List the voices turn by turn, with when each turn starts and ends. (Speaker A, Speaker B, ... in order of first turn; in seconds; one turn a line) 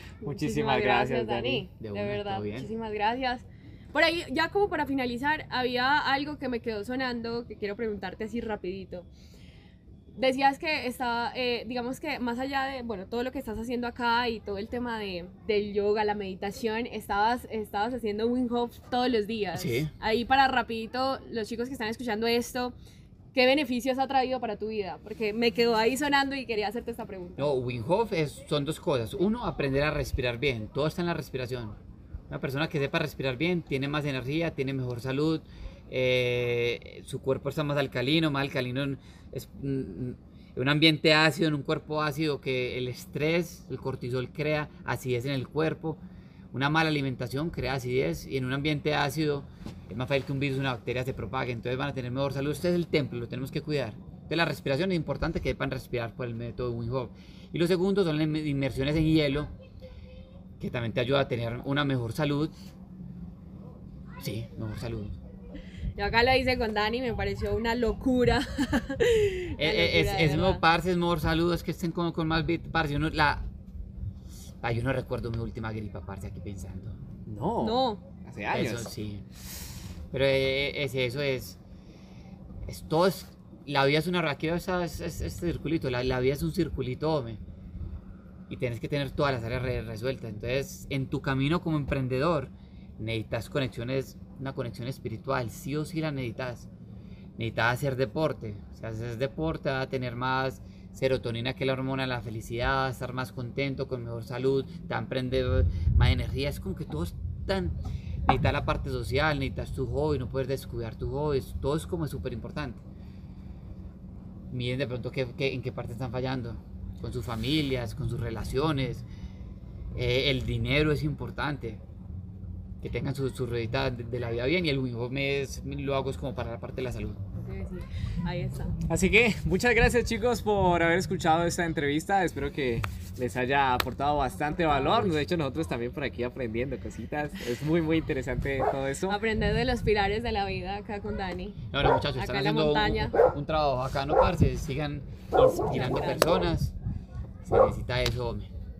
Speaker A: 0.2-9.1
Speaker B: 0.2-1.7
Speaker C: 1.8-2.7
Speaker A: 10.1-22.7
Speaker C: 19.5-19.9
Speaker A: 23.3-27.5
Speaker C: 27.4-31.8
Speaker C: 32.3-46.0
Speaker C: 46.5-59.5
Speaker C: 60.6-62.5
Speaker C: 64.2-65.2
Speaker A: 66.0-70.6
Speaker C: 69.6-73.5
Speaker C: 74.6-77.0
Speaker B: 77.3-78.9
Speaker A: 77.6-78.0
Speaker C: 78.5-79.2
Speaker C: 80.1-81.6
Speaker C: 82.7-87.4
Speaker C: 88.5-96.7
Speaker C: 97.4-112.8
Speaker C: 114.5-119.0
Speaker C: 119.9-121.8
Speaker C: 122.8-127.2
Speaker A: 127.3-128.8
Speaker B: 128.9-139.2
Speaker A: 134.4-135.2
Speaker A: 139.1-141.6
Speaker C: 141.7-146.7
Speaker A: 142.2-143.2
Speaker A: 145.7-146.3
Speaker C: 147.4-148.5